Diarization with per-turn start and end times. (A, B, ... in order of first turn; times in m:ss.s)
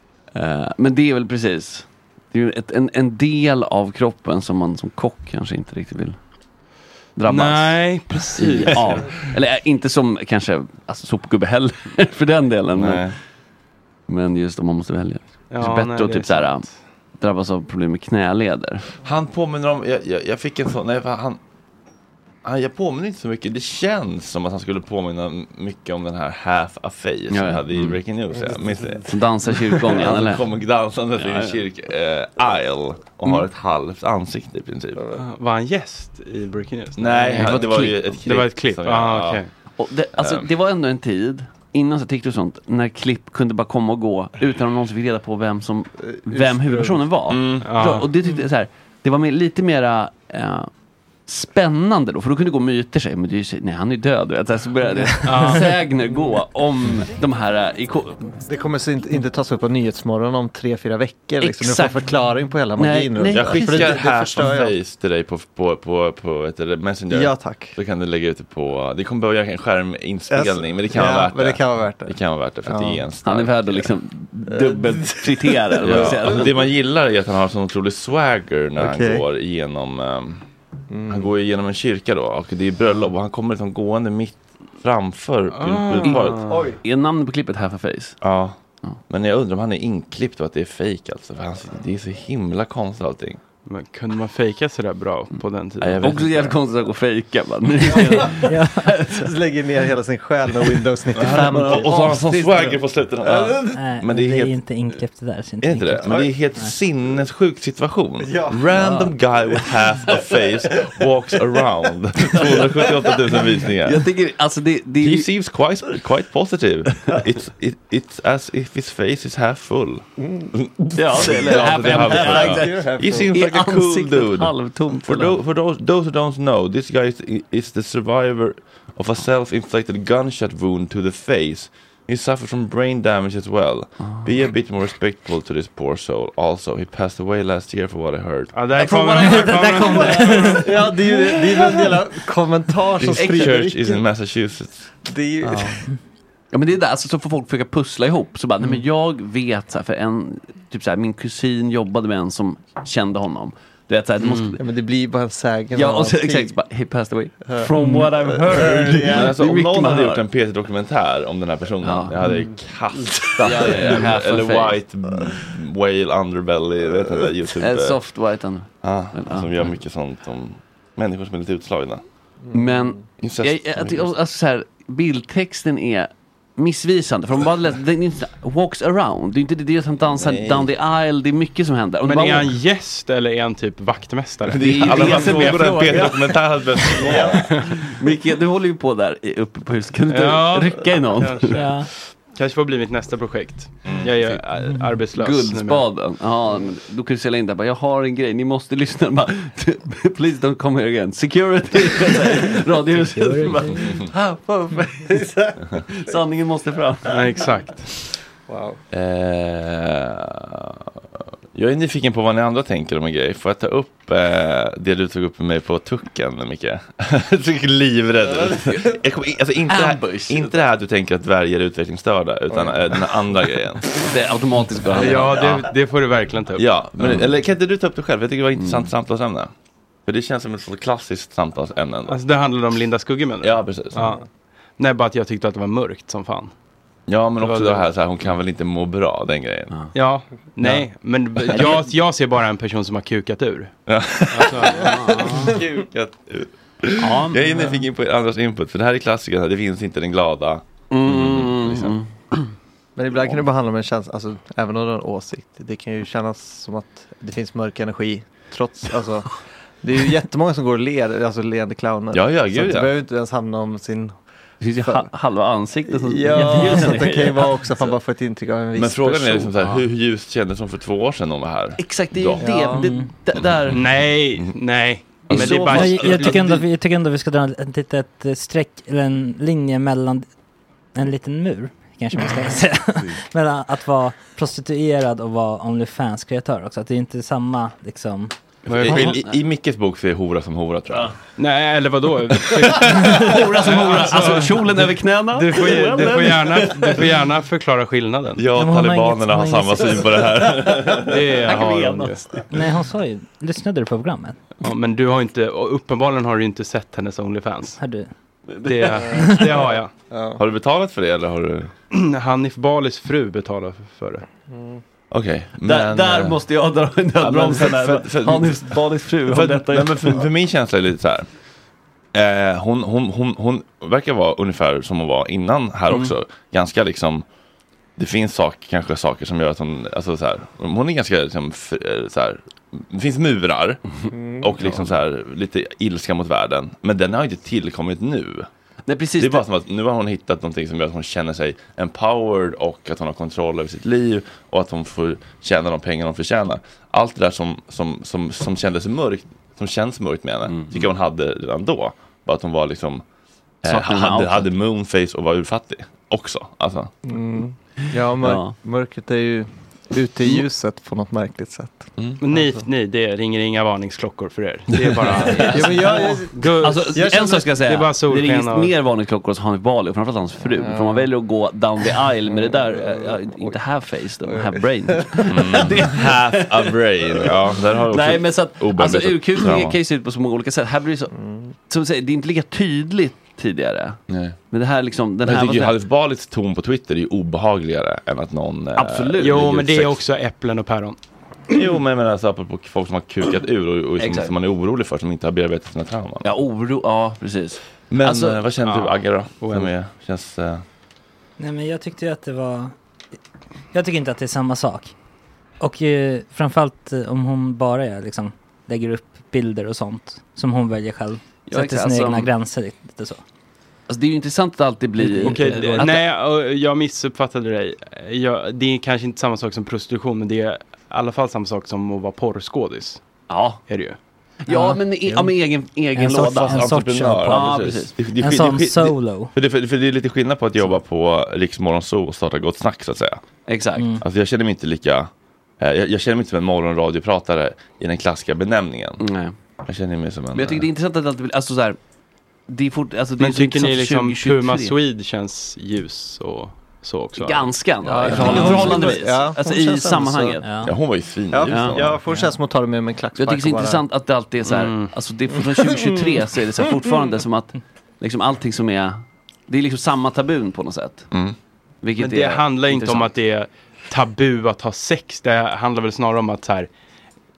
0:00.4-0:06.2 A
0:07.2-0:13.0 A
0:07.3-0:09.0 B
0:12.8-0:13.2 C
0:14.1-0:16.7 A
0:15.5-0:16.7 B
0:17.2-0:18.9 A
0:19.0-0:21.4 C
0:22.4-0:29.2 C
0:27.3-0:28.0 A
0:29.0-0:30.5 A
0:29.8-0:35.2 C
0:31.2-0:31.6 A
0:35.1-0:39.5 B
0:37.0-0:39.4 C
0:37.4-0:38.0 A
0:39.8-0:50.7 A
0:40.2-0:40.5 C
0:46.1-0:47.0 D
0:47.3-0:47.7 C
0:47.6-0:48.1 B
0:51.3-0:58.4 A
0:55.2-0:55.7 B
0:58.5-1:04.8 D
1:01.4-1:02.1 A
1:02.8-1:04.0 A
1:03.3-1:13.9 C
1:07.1-1:07.8 D
1:10.3-1:13.0 D
1:13.2-1:16.6 A
1:14.5-1:15.8 D
1:15.8-1:20.4 C
1:18.8-1:19.2 D
1:20.9-1:21.3 D
1:21.1-1:26.4 C
1:25.5-1:26.7 B
1:26.4-1:26.8 D
1:26.7-1:28.2 A
1:28.2-1:28.6 C
1:29.1-1:33.4 C
1:33.7-1:36.0 B
1:35.8-1:36.6 C
1:36.0-1:39.2 A
1:38.0-1:39.0 E
1:39.1-1:41.9 D
1:41.2-1:44.6 C
1:41.2-1:42.8 A
1:43.2-1:43.8 D
1:43.7-1:46.7 E
1:45.6-1:54.1 C
1:48.2-1:48.8 D
1:48.8-1:49.1 A
1:52.3-1:52.7 A
1:53.8-1:55.3 A
1:55.0-2:04.5 C
2:00.2-2:00.5 D
2:01.0-2:05.4 A
2:01.4-2:03.3 D
2:05.0-2:18.5 C
2:18.5-2:20.6 B
2:18.8-2:20.5 A
2:19.2-2:20.6 E
2:20.2-2:24.0 D
2:21.5-2:21.8 C
2:23.0-2:24.9 C
2:23.2-2:23.7 A
2:25.0-2:25.8 D
2:26.5-2:34.6 A
2:34.2-2:34.5 B
2:34.6-2:36.6 D
2:35.7-2:40.2 A
2:37.8-2:38.1 E
2:38.5-2:39.3 D
2:38.7-2:48.0 C
2:41.8-2:42.5 A
2:43.4-2:44.8 A
2:47.5-2:49.7 A
2:48.8-2:52.0 C
2:52.5-3:02.5 A
2:53.2-2:54.1 C
3:00.2-3:00.7 C
3:02.0-3:06.0 B
3:04.5-3:07.5 C
3:04.6-3:11.6 A
3:07.1-3:07.4 B
3:10.1-3:15.9 B
3:11.5-3:11.9 E
3:13.8-3:14.1 C
3:15.2-3:24.4 A
3:23.1-3:24.0 E
3:24.4-3:25.6 D
3:25.9-3:27.2 A
3:27.1-3:27.9 B
3:28.5-3:28.8 D
3:28.9-3:30.8 C
3:31.5-3:44.0 C
3:38.3-3:38.8 D
3:39.7-3:40.6 A
3:44.0-3:45.4 A
3:45.0-3:46.7 B
3:46.6-3:49.5 C
3:47.0-3:47.3 A
3:48.6-3:48.9 A
3:50.1-3:52.2 C
3:52.1-3:54.2 B
3:53.4-3:54.1 C
3:54.8-3:56.5 B
3:57.1-3:59.7 C
3:57.4-3:57.9 B
3:59.9-4:03.7 B
4:03.9-4:12.0 C
4:04.3-4:05.6 B
4:04.7-4:05.5 A
4:07.0-4:07.8 A
4:10.9-4:12.4 A
4:13.0-4:24.1 D
4:22.1-4:22.9 C
4:24.6-4:27.9 A
4:24.8-4:25.1 D
4:25.9-4:29.6 D
4:28.8-4:32.7 C
4:31.8-4:33.8 A
4:32.4-4:32.8 D
4:32.7-4:33.1 E
4:33.4-4:33.8 C
4:33.7-4:36.6 B
4:35.3-4:36.0 C
4:35.3-4:36.4 A
4:35.4-4:40.3 E
4:41.0-4:48.3 E
4:48.7-4:49.2 B
4:48.7-4:49.3 A
4:48.8-4:51.1 C
4:51.4-4:58.4 B
4:52.5-4:53.0 C
4:52.9-4:57.1 A
4:58.4-5:01.2 C
4:58.5-5:00.0 E
5:00.9-5:02.4 A
5:01.0-5:02.2 B
5:02.5-5:04.4 E
5:04.6-5:07.8 B
5:07.8-5:08.1 E
5:08.5-5:09.4 A
5:08.6-5:09.9 B
5:10.1-5:10.4 D
5:10.4-5:11.7 C
5:11.9-5:14.2 B
5:14.5-5:14.8 D
5:15.1-5:16.4 C
5:15.6-5:20.2 A
5:17.2-5:18.7 C
5:19.3-5:21.3 C
5:22.1-5:27.2 C
5:28.0-5:33.8 C
5:34.1-5:34.5 D
5:34.4-5:38.5 C
5:38.9-5:39.4 A
5:39.2-5:53.0 C
5:50.5-5:50.9 A
5:53.6-5:56.9 C
5:53.7-5:54.5 A
5:57.0-6:02.4 D
5:58.2-5:58.6 A
6:02.2-6:08.7 B
6:05.1-6:17.4 A
6:05.5-6:07.5 D
6:10.6-6:11.1 D
6:12.3-6:13.6 D
6:14.2-6:15.5 D
6:15.3-6:19.8 C
6:17.9-6:21.1 A
6:21.2-6:21.5 D
6:21.7-6:25.8 A
6:24.1-6:24.4 C
6:25.2-6:30.0 C
6:28.8-6:29.4 A
6:29.2-6:31.0 B
6:31.5-6:36.3 C
6:34.0-6:34.3 A
6:36.2-6:38.4 A
6:37.9-6:40.6 C
6:38.6-6:39.7 B
6:41.4-6:42.7 E
6:43.7-6:44.9 E
6:45.6-6:53.2 E
6:51.5-6:52.3 A
6:53.9-6:56.0 A
6:55.0-6:55.8 E
6:55.2-7:03.0 B
7:03.3-7:03.6 A
7:03.7-7:04.0 B
7:04.5-7:06.7 A
7:04.5-7:05.3 E
7:06.0-7:07.6 E
7:06.3-7:13.2 C
7:07.3-7:07.9 A
7:08.2-7:09.3 E
7:13.5-7:13.9 A
7:14.0-7:19.0 C
7:19.0-7:19.4 A
7:19.6-7:20.7 C
7:20.3-7:21.8 A
7:22.5-7:24.8 A
7:23.2-7:27.5 B
7:27.2-7:30.5 A
7:27.8-7:30.4 D
7:28.2-7:28.5 C
7:28.2-7:28.6 B
7:30.4-7:30.7 E
7:30.6-7:32.0 C
7:31.3-7:33.8 D
7:31.5-7:31.8 A
7:33.2-7:41.1 A
7:34.5-7:34.9 B
7:41.8-7:43.1 A
7:42.0-7:46.7 B